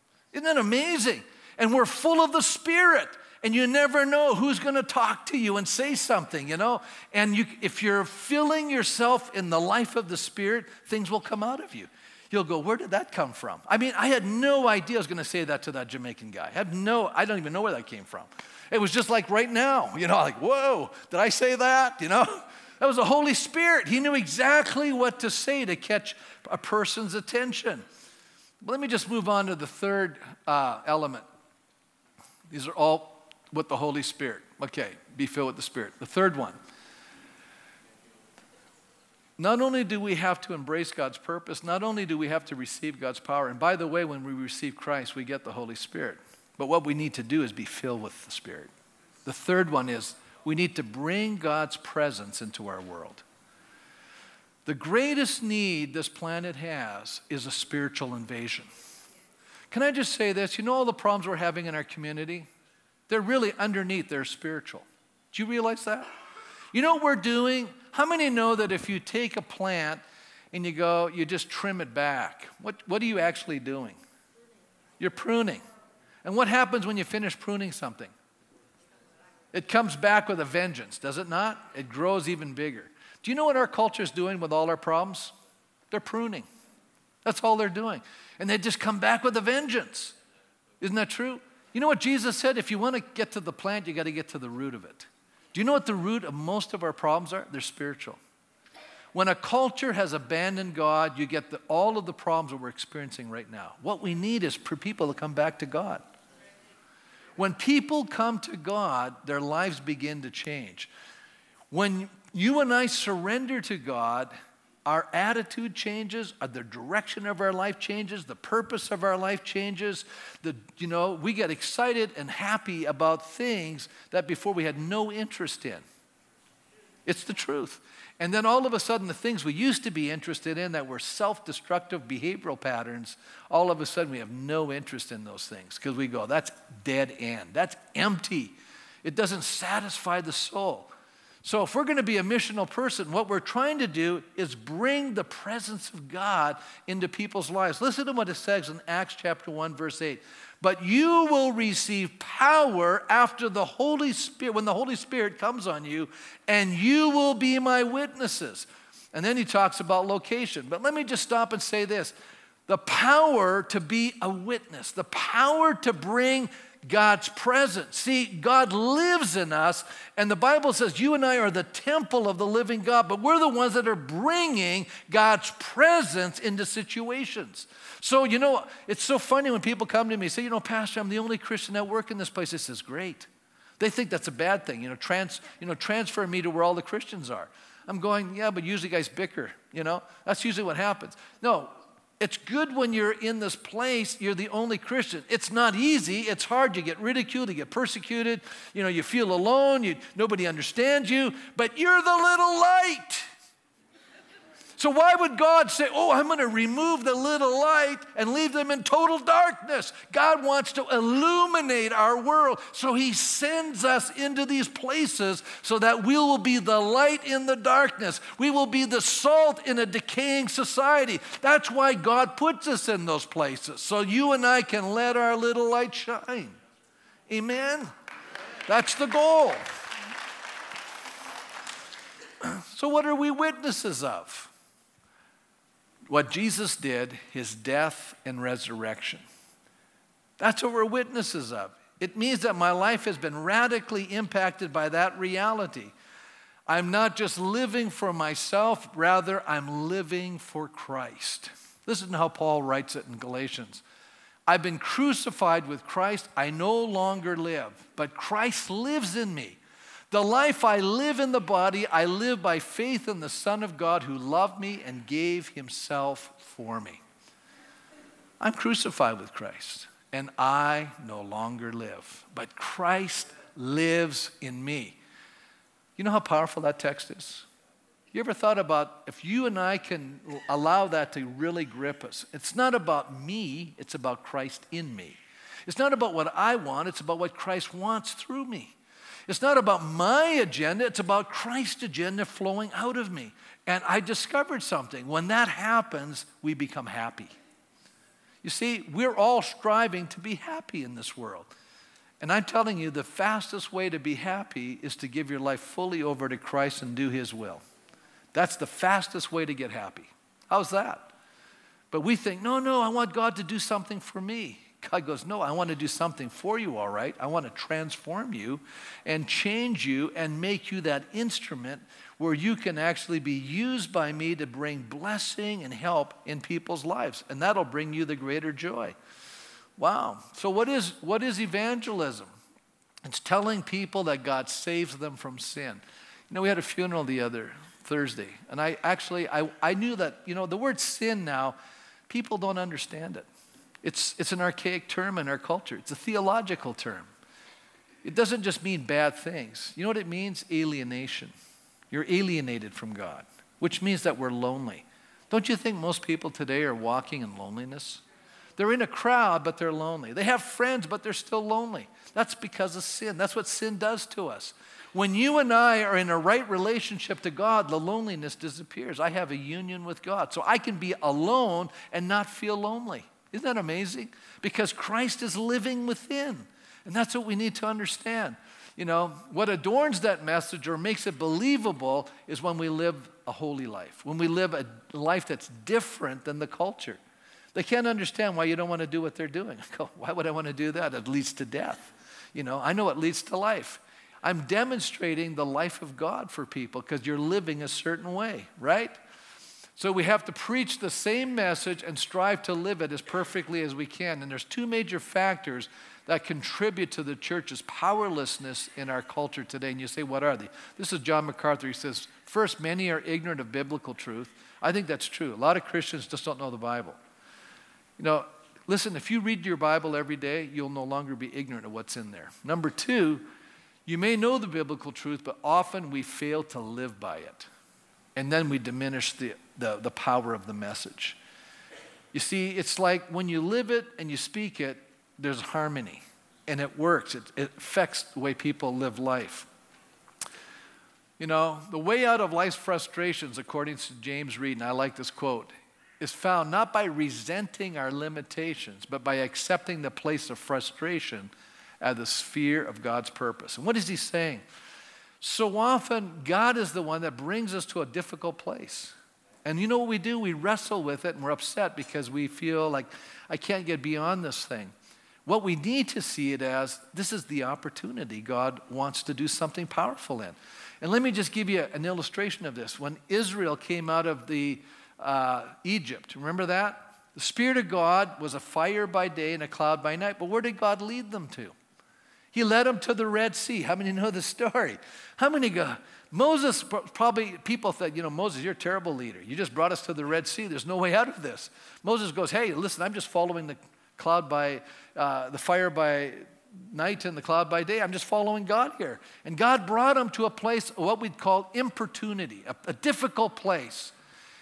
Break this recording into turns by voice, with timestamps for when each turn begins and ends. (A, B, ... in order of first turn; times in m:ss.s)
0:00.3-0:27.8 A
0:28.6-0:31.2 A
0:32.5-0:36.6 A
0:39.4-0:48.7 A
0:49.2-0:53.2 A
0:54.7-0:58.7 A
0:59.7-1:02.5 A
1:03.1-1:06.1 A
1:06.7-1:14.0 A
1:15.0-1:15.6 A
1:16.2-1:18.1 A
1:19.5-1:25.3 A
1:25.9-1:26.5 A
1:27.2-1:30.2 A
1:30.8-1:38.2 A
1:39.1-1:46.0 A
1:47.4-1:50.9 A
1:51.7-1:54.3 A
1:54.9-2:05.8 A
2:07.1-2:20.9 A
2:21.4-2:42.1 A
2:42.7-3:03.3 A
3:03.8-3:23.3 A
3:24.8-3:46.6 A
3:47.3-3:47.9 A
3:48.7-3:49.6 A
3:52.4-3:54.5 A
3:56.1-3:59.2 A
4:00.4-4:05.9 A
4:06.7-4:13.8 A
4:14.5-4:19.6 A
4:20.1-4:27.0 A
4:28.4-4:35.0 A
4:36.0-4:37.5 A
4:38.1-4:48.8 A
4:49.3-4:57.3 A
4:58.4-5:01.5 A
5:02.2-5:07.6 A
5:08.3-5:11.1 A
5:11.9-5:29.0 A
5:29.8-5:32.3 A
5:33.0-5:41.6 A
5:42.1-5:43.3 A
5:43.8-5:47.1 A
5:48.0-5:51.3 A
5:51.9-5:58.0 A
5:58.6-6:27.0 A
6:27.5-6:39.0 A
6:39.8-6:57.0 A
6:58.0-7:03.2 A
7:03.9-7:07.5 A
7:08.2-7:11.2 A
7:12.1-7:19.5 A
7:21.2-7:34.4 A
7:35.2-7:44.7 A
7:45.3-8:01.5 A
8:02.3-8:23.9 A